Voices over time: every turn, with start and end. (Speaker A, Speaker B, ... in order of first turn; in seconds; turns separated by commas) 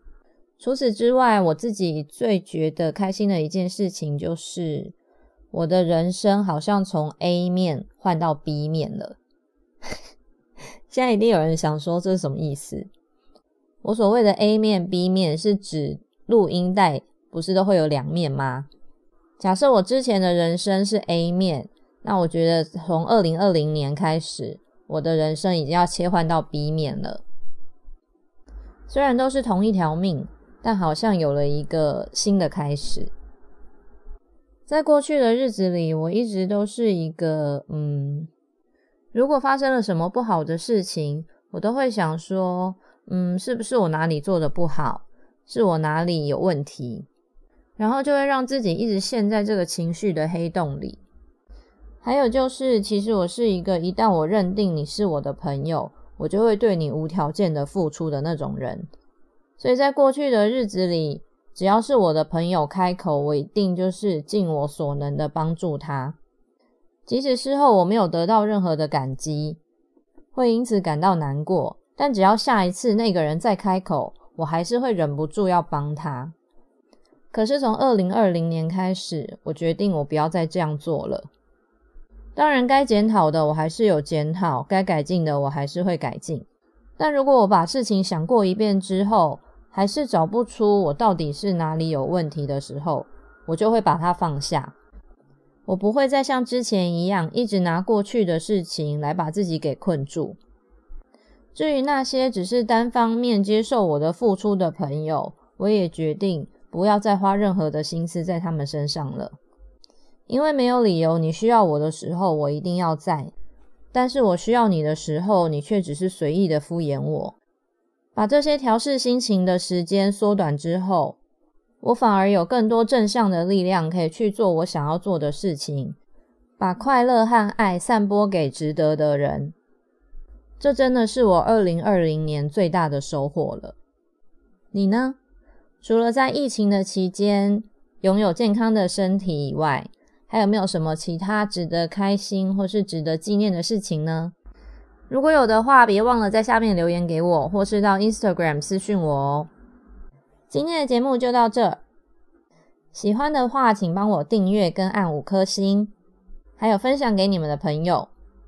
Speaker A: 0.6-4.9, Speaker A: 5.5-9.2, Speaker A: 10.9-12.9, Speaker A: 13.8-18.7, Speaker A: 19.4-27.2, Speaker A: 28.9-33.1, Speaker A: 34.7-38.3, Speaker A: 39.1-47.1, Speaker A: 47.8-51.0, Speaker A: 52.0-58.9, Speaker A: 59.6-66.2, Speaker A: 67.1-69.6, Speaker A: 70.3-76.3, Speaker A: 77.3-81.3, Speaker A: 82.3-86.5, Speaker A: 87.0-94.7, Speaker A: 95.7-100.4, Speaker A: 101.5-109.3, Speaker A: 110.3-113.3, Speaker A: 113.9-117.3, Speaker A: 118.2-121.2, Speaker A: 121.8-126.0, Speaker A: 126.6-129.5, Speaker A: 130.6-133.7, Speaker A: 134.7-135.2, Speaker A: 135.8-144.3, Speaker A: 145.1-149.5, Speaker A: 150.5-151.8, Speaker A: 152.9-155.9, Speaker A: 156.6-158.1